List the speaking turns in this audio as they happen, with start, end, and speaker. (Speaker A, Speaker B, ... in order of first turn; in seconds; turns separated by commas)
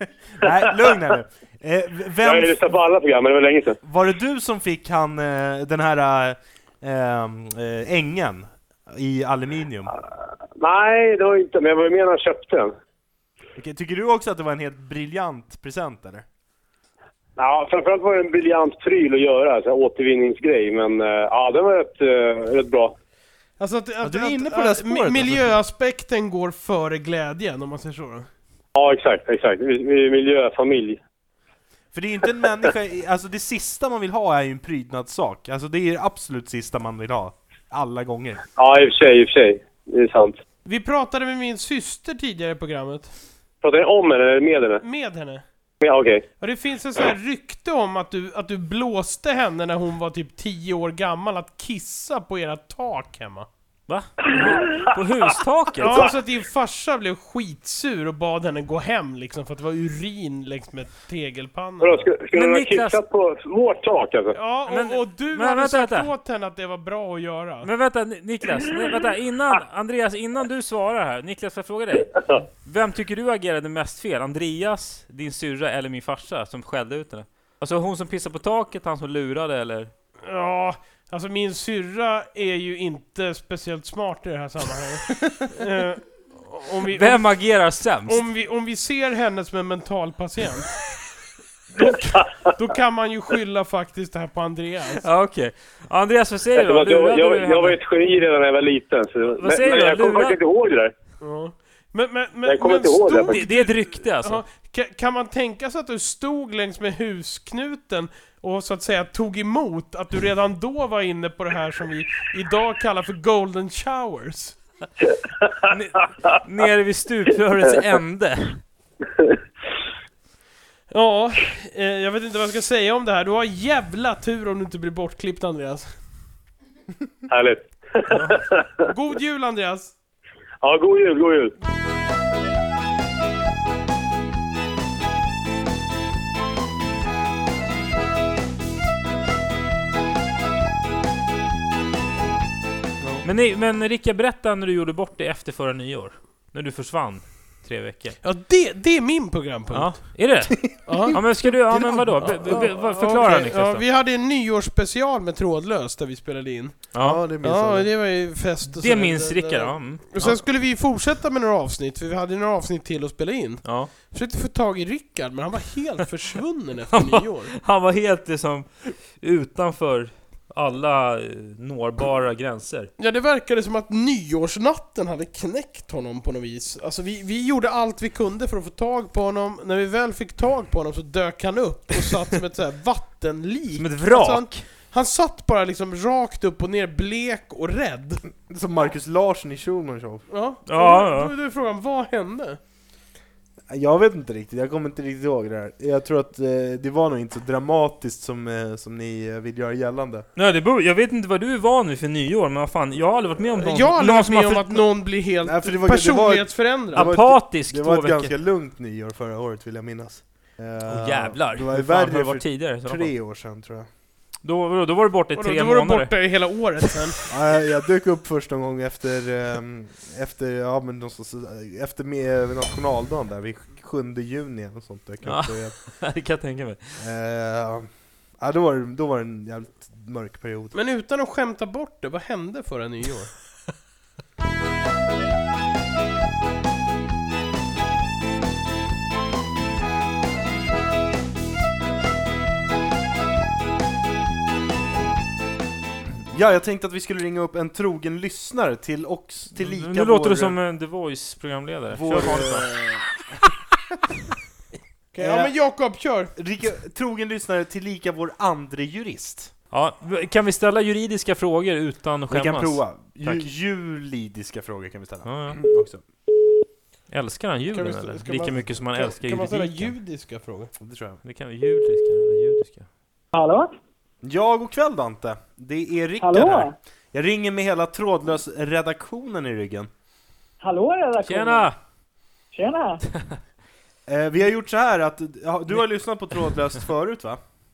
Speaker A: 0.3-2.7, Speaker B: 2.2-3.8, Speaker A: 3.8-9.9, Speaker B: 10.6-12.7, Speaker A: 13.6-16.2, Speaker B: 17.4-22.9, Speaker C: 23.6-28.3, Speaker A: 24.0-25.6, Speaker B: 28.8-31.0, Speaker A: 31.9-38.4, Speaker B: 38.6-40.4, Speaker C: 40.6-43.1, Speaker B: 43.6-44.8, Speaker C: 44.8-45.4, Speaker B: 45.8-46.2, Speaker C: 46.4-53.5, Speaker D: 53.9-56.1, Speaker C: 55.8-62.1, Speaker B: 61.8-64.4, Speaker D: 62.3-63.0, Speaker C: 64.3-67.7, Speaker D: 64.7-66.1, Speaker D: 67.6-79.9, Speaker C: 80.2-90.7, Speaker D: 86.9-88.2, Speaker C: 91.8-95.0, Speaker B: 92.1-92.5, Speaker D: 95.0-97.8, Speaker B: 96.5-100.9, Speaker D: 99.4-100.4, Speaker C: 101.2-114.6, Speaker B: 102.5-103.4, Speaker D: 103.3-104.4, Speaker D: 115.7-118.6, Speaker C: 120.9-126.0, Speaker B: 127.3-128.4, Speaker D: 128.1-128.4, Speaker C: 128.9-129.9, Speaker B: 130.6-131.5, Speaker D: 143.2-148.2, Speaker C: 148.2-150.3, Speaker D: 149.7-153.8, Speaker A: 150.6-152.7, Speaker C: 150.9-151.4, Speaker C: 152.2-167.6, Speaker D: 156.9-157.2, Speaker A: 157.0-157.9, Speaker D: 158.8-160.4, Speaker D: 163.6-163.9, Speaker D: 166.9-172.9, Speaker C: 173.0-188.2, Speaker D: 183.8-184.7, Speaker A: 188.4-190.3, Speaker C: 190.3-192.6, Speaker D: 190.7-191.3, Speaker A: 193.7-200.3, Speaker D: 200.4-204.9, Speaker C: 203.5-207.1, Speaker A: 205.4-213.9, Speaker D: 206.9-208.3, Speaker D: 210.9-213.1, Speaker D: 214.4-216.4, Speaker C: 215.3-217.2, Speaker A: 217.3-225.8, Speaker D: 225.2-227.0, Speaker A: 227.0-230.8, Speaker C: 230.7-233.4, Speaker A: 246.3-250.6, Speaker D: 249.5-252.8, Speaker A: 251.9-253.4, Speaker C: 255.1-256.3, Speaker A: 255.2-255.6, Speaker A: 256.3-259.5, Speaker D: 259.7-263.5, Speaker A: 262.3-266.0, Speaker D: 265.2-265.6, Speaker D: 267.1-269.9, Speaker C: 267.7-270.7, Speaker A: 270.8-271.2, Speaker D: 271.2-272.9, Speaker E: 273.3-273.8, Speaker A: 274.2-279.9, Speaker E: 276.2-276.8, Speaker E: 280.6-281.7, Speaker D: 281.2-281.8, Speaker E: 282.5-283.0, Speaker A: 284.1-287.4